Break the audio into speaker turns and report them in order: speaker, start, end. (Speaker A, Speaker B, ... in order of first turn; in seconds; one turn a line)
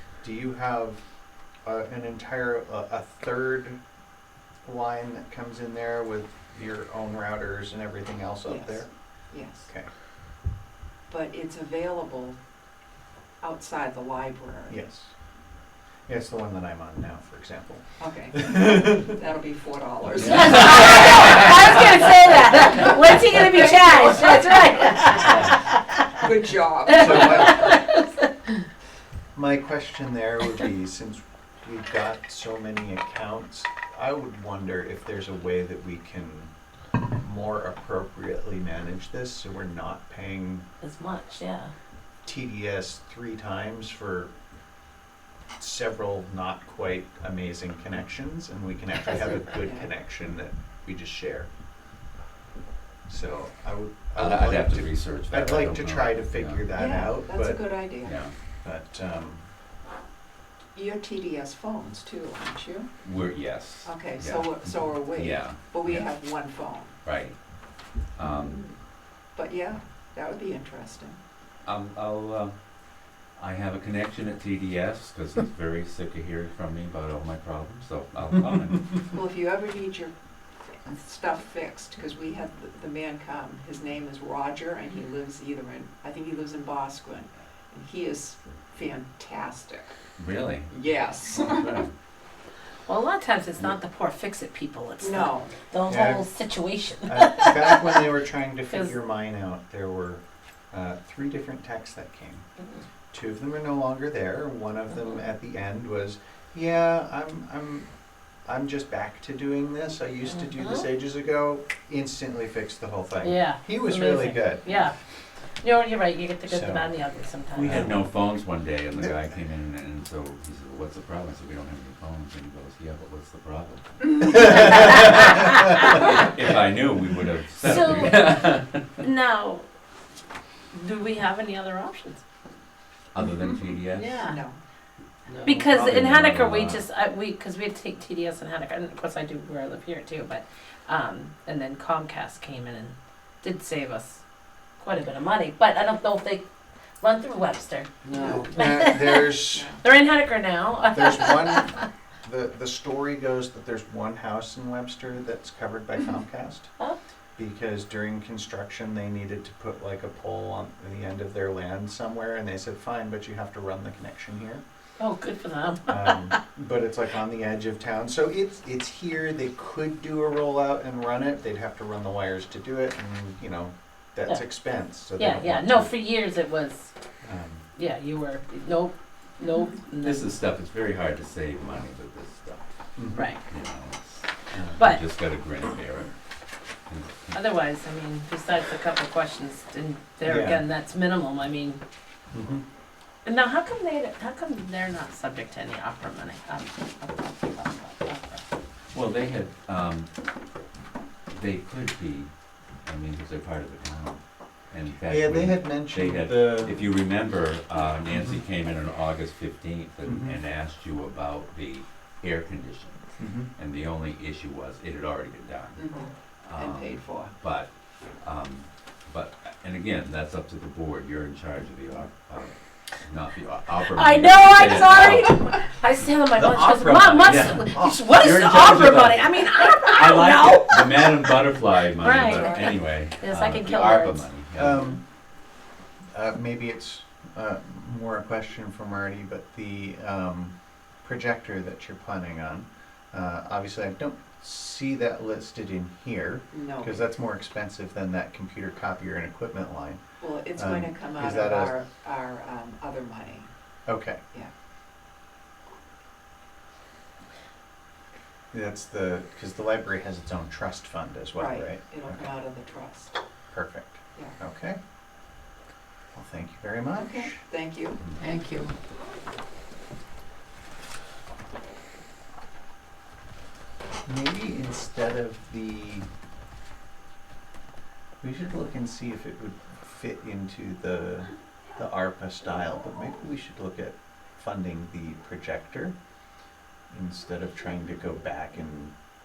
Speaker A: 0.2-1.0
Speaker A: 1.6-3.8
Speaker A: 4.6-8.9
Speaker B: 8.4-9.7
Speaker A: 9.6-9.9
Speaker B: 11.1-12.4
Speaker B: 13.4-14.8
Speaker A: 14.7-15.1
Speaker A: 16.1-19.1
Speaker B: 18.0-21.9
Speaker C: 20.2-20.8
Speaker D: 20.2-26.3
Speaker B: 22.7-25.5
Speaker B: 26.1-27.8
Speaker D: 26.9-28.2
Speaker A: 26.9-27.8
Speaker A: 29.3-36.5
Speaker A: 37.1-40.6
Speaker D: 40.8-41.7
Speaker A: 42.2-44.3
Speaker A: 45.6-51.5
Speaker B: 49.6-49.9
Speaker A: 53.1-57.7
Speaker C: 54.1-56.7
Speaker B: 56.7-58.2
Speaker C: 58.0-58.3
Speaker A: 58.6-59.4
Speaker B: 60.7-62.9
Speaker C: 63.0-66.0
Speaker B: 63.8-67.0
Speaker C: 67.0-67.4
Speaker C: 68.1-68.7
Speaker B: 69.3-71.2
Speaker C: 71.6-72.5
Speaker C: 73.4-78.9
Speaker B: 79.1-89.9
Speaker C: 90.2-90.7
Speaker B: 90.7-91.8
Speaker C: 91.4-91.9
Speaker D: 92.9-98.0
Speaker B: 95.0-95.5
Speaker A: 95.8-96.3
Speaker A: 97.0-102.4
Speaker A: 103.1-107.9
Speaker A: 108.4-114.8
Speaker D: 113.2-114.9
Speaker D: 115.6-117.9
Speaker A: 116.5-116.9
Speaker C: 117.5-129.0
Speaker D: 124.3-125.7
Speaker D: 127.6-129.7
Speaker D: 130.7-132.2
Speaker C: 133.1-134.2
Speaker D: 134.0-134.3
Speaker B: 134.1-134.6
Speaker D: 135.4-144.2
Speaker C: 135.4-136.8
Speaker D: 144.8-146.4
Speaker D: 147.0-147.9
Speaker C: 148.1-148.4
Speaker B: 148.1-148.4
Speaker A: 148.2-149.7
Speaker D: 148.5-151.9
Speaker B: 149.5-149.8
Speaker A: 150.9-156.7
Speaker A: 157.3-164.6
Speaker D: 165.0-166.4
Speaker A: 165.9-175.9
Speaker D: 175.0-176.9
Speaker A: 177.2-177.6
Speaker D: 177.8-180.2
Speaker C: 180.0-182.6
Speaker A: 183.0-183.3
Speaker C: 183.4-186.1
Speaker A: 184.5-184.8
Speaker C: 186.9-187.4
Speaker D: 187.3-191.8
Speaker A: 190.2-190.6
Speaker A: 192.3-192.6
Speaker D: 193.2-198.4
Speaker C: 198.9-200.1
Speaker C: 201.3-202.3
Speaker C: 202.8-215.9
Speaker A: 205.1-206.9
Speaker A: 210.1-210.3
Speaker A: 213.2-213.5
Speaker B: 215.8-217.3
Speaker C: 216.4-217.7
Speaker C: 218.2-225.4
Speaker D: 223.8-231.3
Speaker A: 226.3-228.0
Speaker C: 227.2-234.8
Speaker D: 232.0-234.2
Speaker B: 232.2-232.7
Speaker A: 234.6-235.0
Speaker A: 236.1-250.0
Speaker B: 246.5-247.0
Speaker B: 250.2-253.5
Speaker A: 250.6-251.8
Speaker A: 253.9-254.2
Speaker A: 258.5-262.3
Speaker B: 261.4-263.2
Speaker A: 263.5-264.8
Speaker A: 266.1-267.4
Speaker B: 267.0-268.7
Speaker A: 274.1-276.1
Speaker A: 278.2-285.9
Speaker A: 286.9-288.9